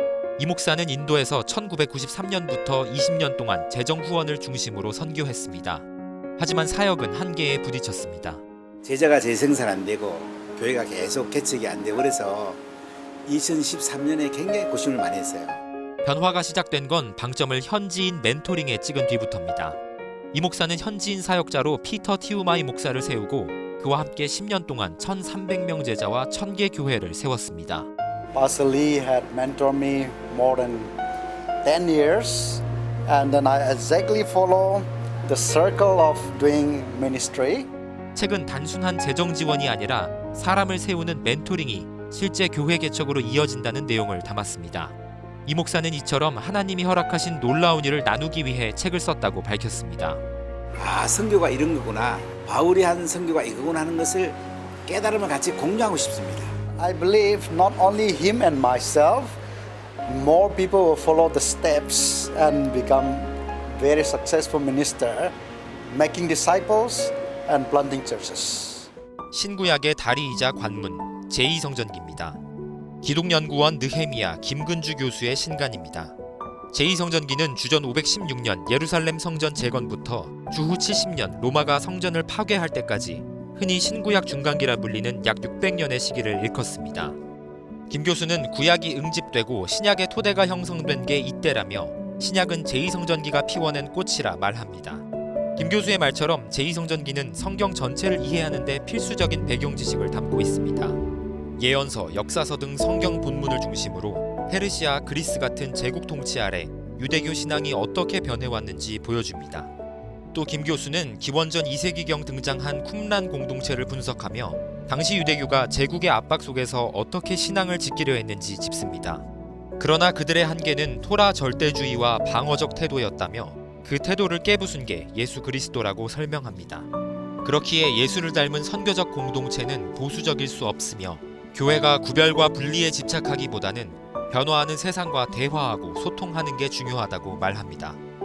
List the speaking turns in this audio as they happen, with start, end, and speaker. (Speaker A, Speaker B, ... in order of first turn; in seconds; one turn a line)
Speaker A: 0.4-5.9
Speaker A: 6.4-8.4
Speaker B: 8.8-12.6
Speaker B: 13.3-15.6
Speaker A: 16.0-19.8
Speaker A: 20.3-27.9
Speaker C: 28.3-31.0
Speaker C: 31.6-37.7
Speaker A: 38.1-45.0
Speaker A: 45.5-50.2
Speaker B: 50.8-56.5
Speaker C: 56.8-59.4
Speaker C: 60.1-65.3
Speaker C: 65.9-68.9
Speaker A: 69.3-72.4
Speaker A: 73.0-76.1
Speaker A: 76.7-87.2
Speaker A: 87.9-95.0
Speaker A: 95.6-101.0
Speaker A: 101.6-109.7
Speaker A: 110.3-119.2
Speaker A: 119.8-126.9
Speaker A: 127.4-138.0